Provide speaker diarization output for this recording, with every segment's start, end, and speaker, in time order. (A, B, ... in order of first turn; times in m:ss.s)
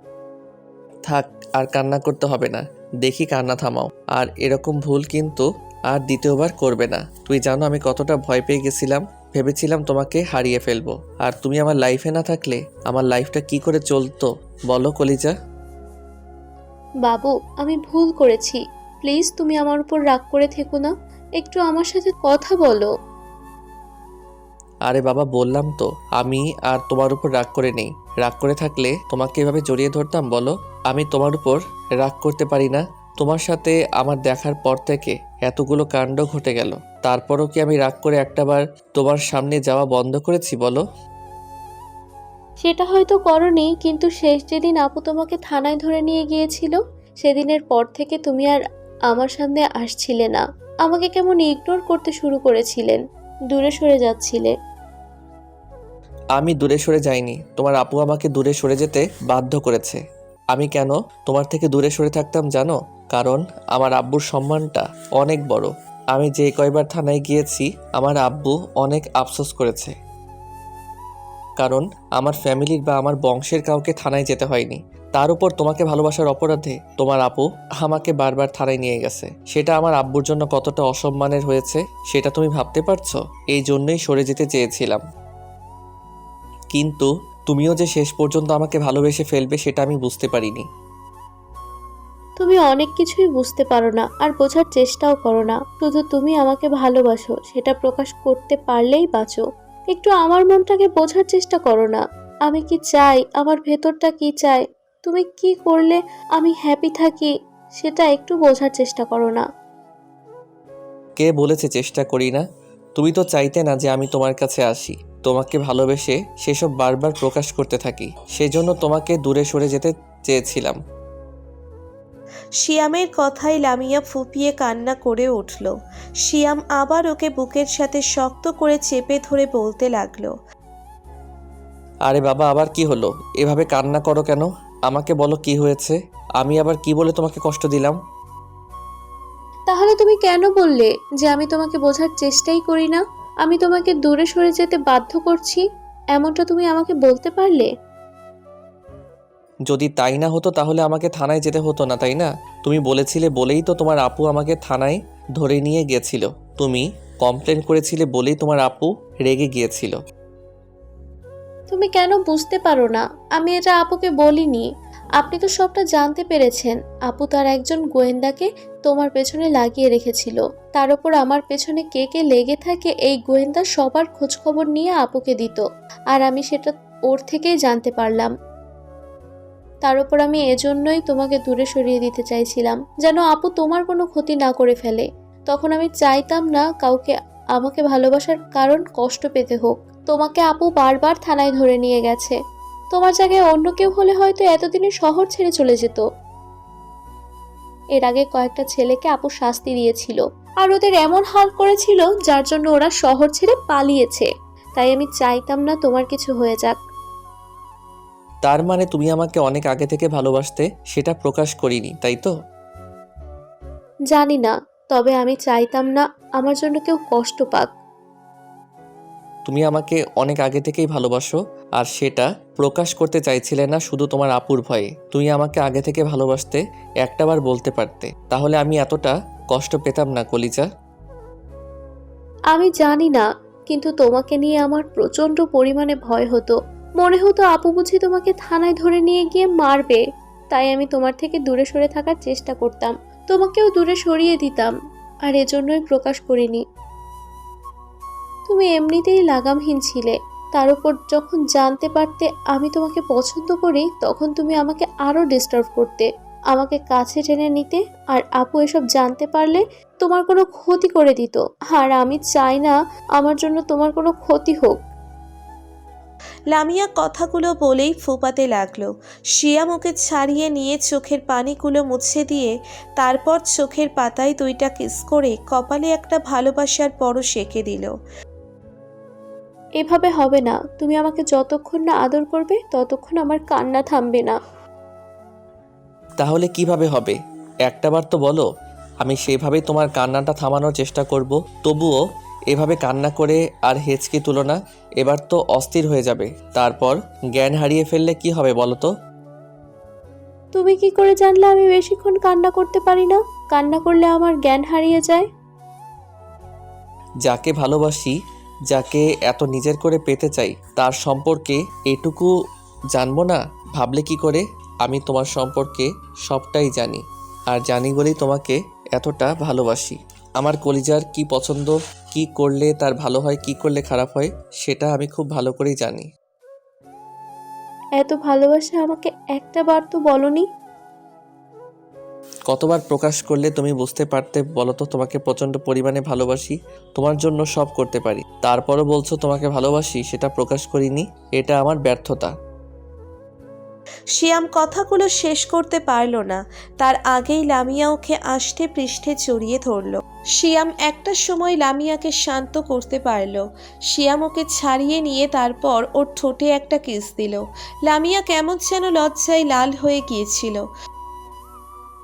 0:01.0-0:15.3 A
0:17.0-0:22.9 B
0:24.8-0:40.8 A
0:42.6-0:53.0 B
0:53.5-0:54.5 B
0:56.3-1:00.0 A
1:00.5-1:09.9 A
1:11.6-1:25.0 A
1:26.7-1:30.6 A
1:32.4-1:49.4 B
1:51.2-1:52.4 A
1:52.9-2:00.8 A
2:02.6-2:10.3 C
2:12.0-2:18.0 A
2:19.7-2:27.7 B
2:29.7-2:40.0 A
2:41.7-2:44.6 B
2:45.2-2:58.3 B
2:59.8-3:12.4 B
3:12.9-3:16.0 B
3:18.0-3:26.8 B
3:28.4-3:32.3 A
3:34.1-3:37.7 B
3:39.4-3:50.7 A
3:52.5-4:00.0 B
4:00.5-4:04.7 B
4:05.2-4:06.6 B
4:08.5-4:24.8 B
4:26.5-4:37.9 C
4:39.8-4:44.4 B
4:46.2-4:48.4 A
4:49.0-4:52.0 A
4:52.5-4:58.9 A
5:00.5-5:05.2 B
5:07.2-5:08.1 A
5:08.7-5:12.3 A
5:12.9-5:26.1 A
5:28.0-5:30.4 B
5:32.5-5:42.3 A
5:44.1-6:00.6 C